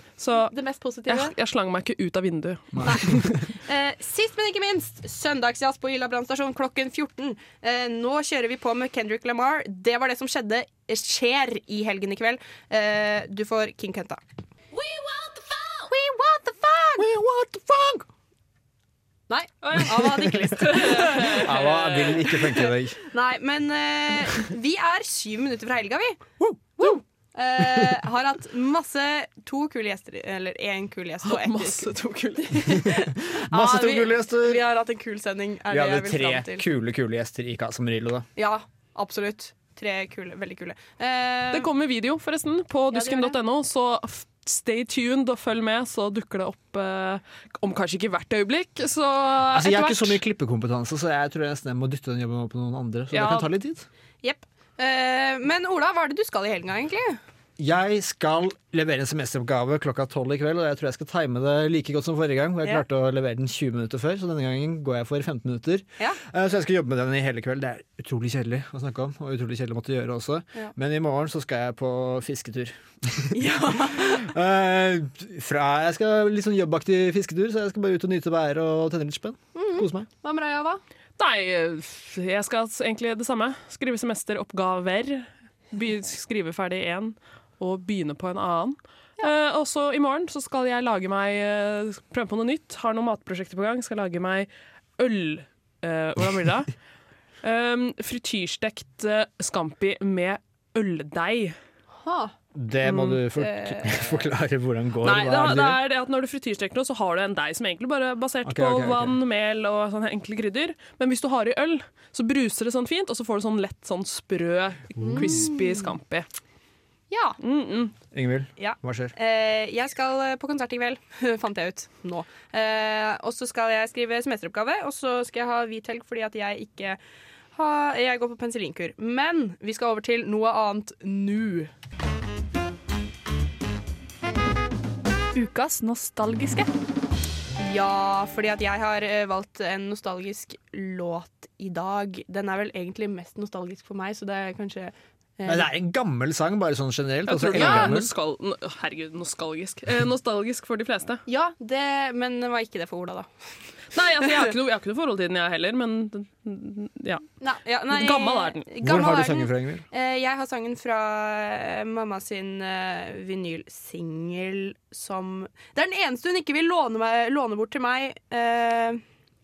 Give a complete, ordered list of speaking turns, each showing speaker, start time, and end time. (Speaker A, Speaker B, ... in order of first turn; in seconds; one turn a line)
Speaker A: 0.1-3.3
Speaker B: 0.5-1.3
Speaker C: 2.8-3.4
Speaker B: 2.8-14.2
Speaker B: 15.0-17.1
Speaker C: 17.0-18.1
Speaker B: 19.3-21.5
Speaker A: 19.6-22.3
Speaker C: 21.4-23.0
Speaker B: 22.3-26.3
Speaker C: 26.4-26.9
Speaker B: 26.8-36.6
Speaker A: 31.2-32.7
Speaker C: 33.4-34.6
Speaker C: 35.7-38.3
Speaker B: 38.4-41.7
Speaker A: 41.5-50.2
Speaker B: 42.9-43.4
Speaker C: 49.5-53.9
Speaker A: 53.1-53.5
Speaker B: 54.2-57.2
Speaker C: 57.6-80.1
Speaker B: 73.3-74.3
Speaker B: 79.5-80.8
Speaker A: 81.2-96.8
Speaker A: 97.4-101.6
Speaker B: 102.0-104.2
Speaker C: 102.5-105.8
Speaker A: 105.0-116.3
Speaker C: 108.4-109.2
Speaker C: 115.0-115.5
Speaker B: 115.0-115.8
Speaker B: 117.1-117.4
Speaker A: 117.4-117.9
Speaker C: 118.1-119.1
Speaker B: 118.6-127.0
Speaker B: 127.5-131.7
Speaker B: 135.3-136.7
Speaker B: 137.6-145.7
Speaker C: 145.5-148.1
Speaker A: 147.3-151.2
Speaker B: 147.5-147.9
Speaker B: 151.3-153.6
Speaker A: 153.9-157.3
Speaker B: 154.2-154.5
Speaker B: 157.4-169.0
Speaker A: 157.9-158.7
Speaker C: 158.8-159.8